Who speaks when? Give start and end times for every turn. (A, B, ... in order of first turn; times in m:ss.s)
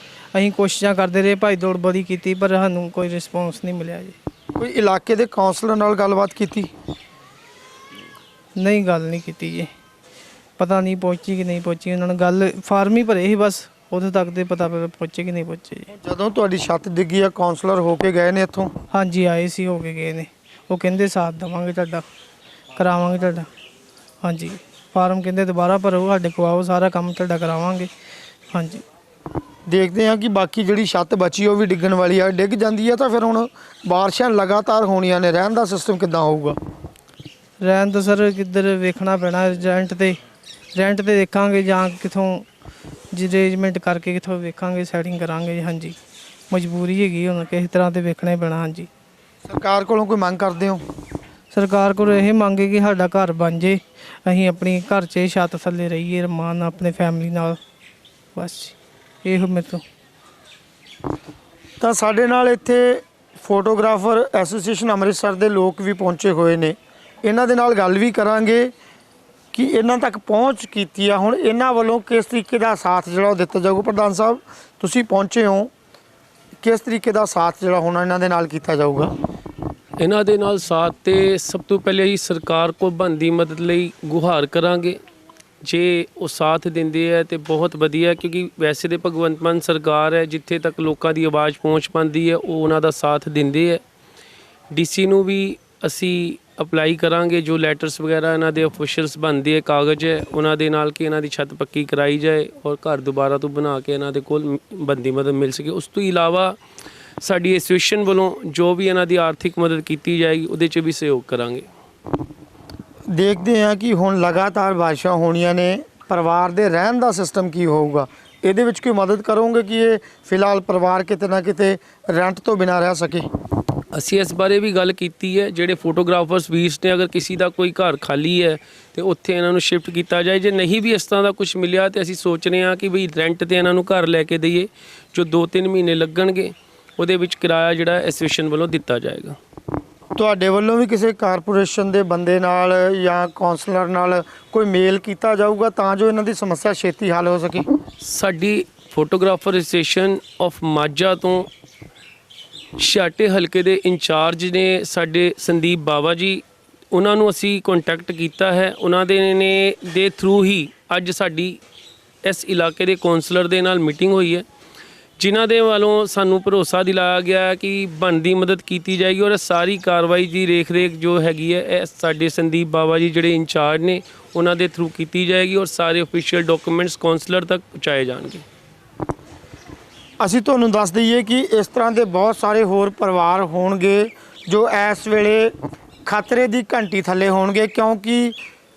0:00.3-0:04.1 A
0:04.5-0:06.7 B
0:08.5-0:09.7 A
0:10.6-0:15.9 A
0:16.0-0:18.7 B
0:18.9-0:22.0 A
0:22.8-0:23.5 A
0:24.2-0:27.9 A
0:28.5-0:28.8 A
0:29.7-0:36.6 B
0:37.6-0:40.2 A
0:40.7-0:42.4 A
0:43.1-0:46.0 A
0:46.5-0:48.9 A
0:49.5-0:50.8 B
0:51.5-0:57.6 A
0:58.3-0:59.8 A
1:01.8-1:08.7 B
1:09.5-1:15.7 B
1:16.6-1:19.1 B
1:20.0-1:25.0 C
1:25.6-1:33.8 C
1:34.7-1:46.6 C
1:47.2-1:51.7 C
1:53.1-2:03.3 B
2:03.9-2:19.4 C
2:20.2-2:27.7 B
2:28.0-2:31.5 C
2:32.8-2:41.6 C
2:42.2-2:44.4 C
2:45.2-2:58.4 C
3:00.2-3:08.4 B